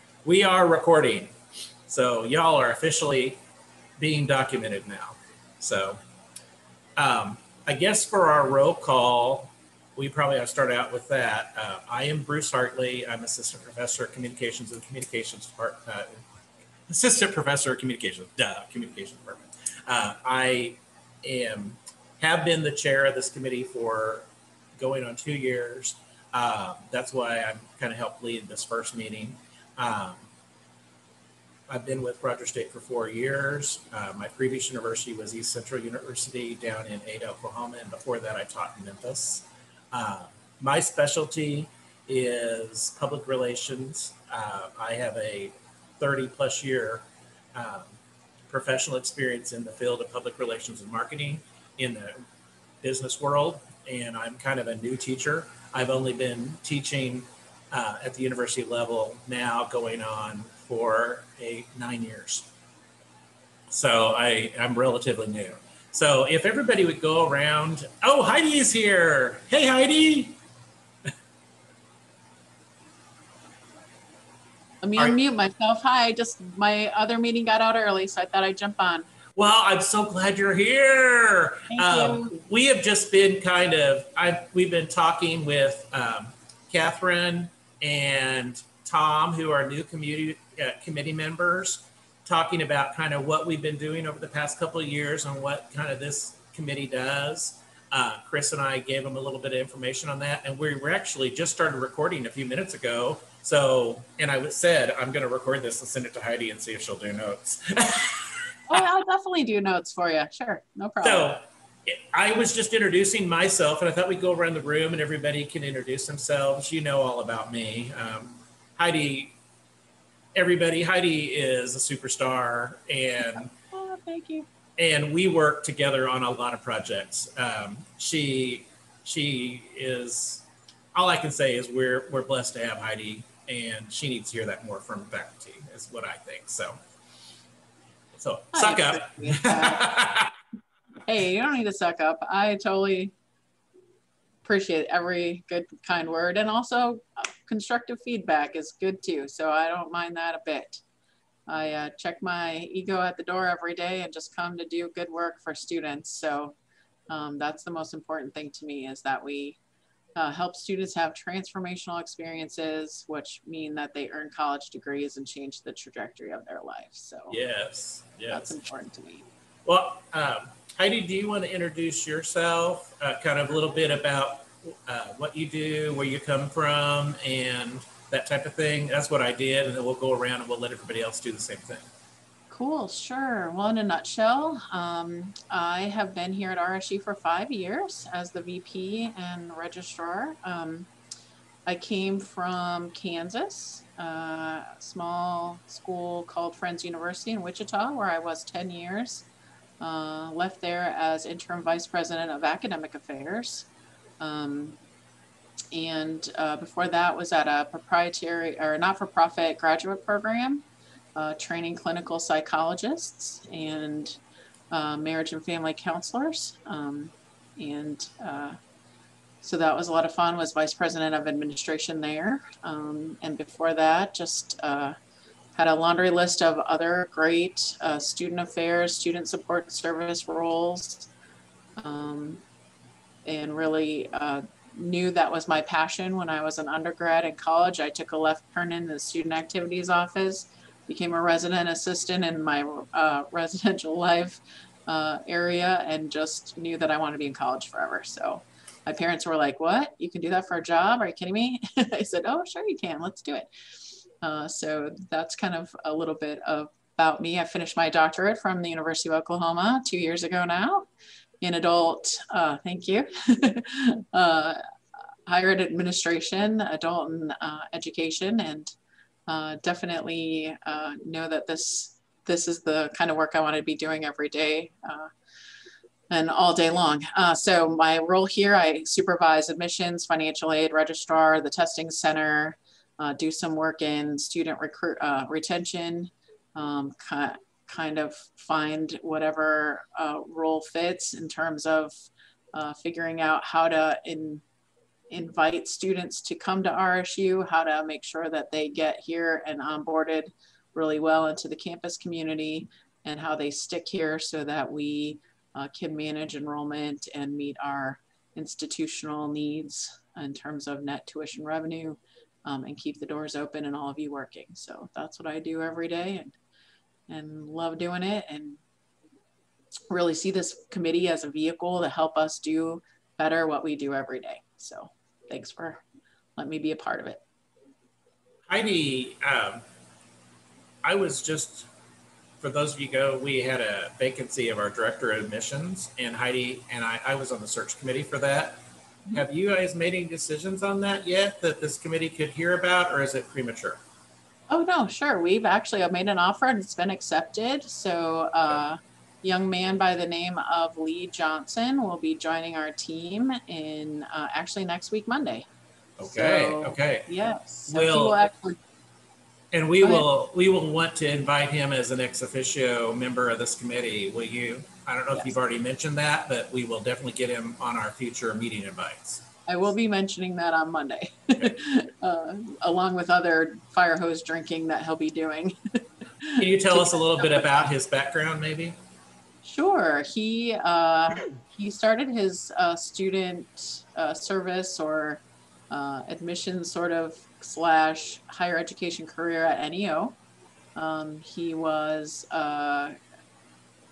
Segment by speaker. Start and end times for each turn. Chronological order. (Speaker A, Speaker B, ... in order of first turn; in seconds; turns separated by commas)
Speaker A: 0.2-1.3, Speaker A: 1.9-3.4, Speaker A: 4.0-6.0, Speaker A: 7.0-16.2, Speaker A: 16.9-24.2, Speaker A: 24.8-30.2, Speaker A: 31.7-47.9, Speaker A: 48.5-52.2, Speaker A: 52.8-62.5, Speaker A: 63.7-70.4, Speaker B: 74.8-79.0, Speaker A: 79.3-108.8, Speaker B: 81.7-82.3, Speaker B: 108.7-111.3, Speaker A: 111.0-119.3, Speaker A: 120.3-123.5, Speaker B: 123.7-124.5, Speaker A: 124.8-136.8, Speaker A: 138.1-140.3, Speaker B: 138.5-139.9, Speaker B: 141.1-143.1, Speaker B: 144.4-150.8, Speaker B: 151.5-156.6, Speaker B: 157.1-159.6, Speaker B: 160.2-167.4, Speaker A: 167.3-168.5, Speaker B: 168.3-169.2, Speaker A: 169.7-181.8, Speaker B: 182.5-190.9, Speaker B: 191.7-199.2, Speaker B: 199.8-203.7, Speaker B: 204.2-204.8, Speaker B: 205.7-210.6, Speaker B: 211.2-214.2, Speaker B: 214.7-218.6, Speaker B: 219.4-224.9, Speaker B: 225.5-231.1, Speaker B: 231.8-232.4, Speaker B: 233.2-253.5, Speaker B: 254.2-260.9, Speaker B: 261.4-264.6, Speaker B: 265.3-268.7, Speaker B: 269.3-275.1, Speaker B: 276.1-294.4, Speaker B: 295.1-316.3, Speaker B: 317.1-318.6, Speaker B: 319.9-325.8, Speaker B: 326.4-327.2, Speaker A: 328.5-329.6, Speaker A: 330.8-331.7, Speaker A: 332.4-338.6, Speaker A: 339.1-343.8, Speaker B: 344.5-355.4, Speaker A: 356.0-357.1, Speaker B: 356.1-358.6, Speaker A: 357.7-358.1, Speaker A: 359.5-369.2, Speaker B: 369.5-377.3, Speaker A: 376.4-378.8, Speaker B: 379.4-390.2, Speaker B: 390.8-392.9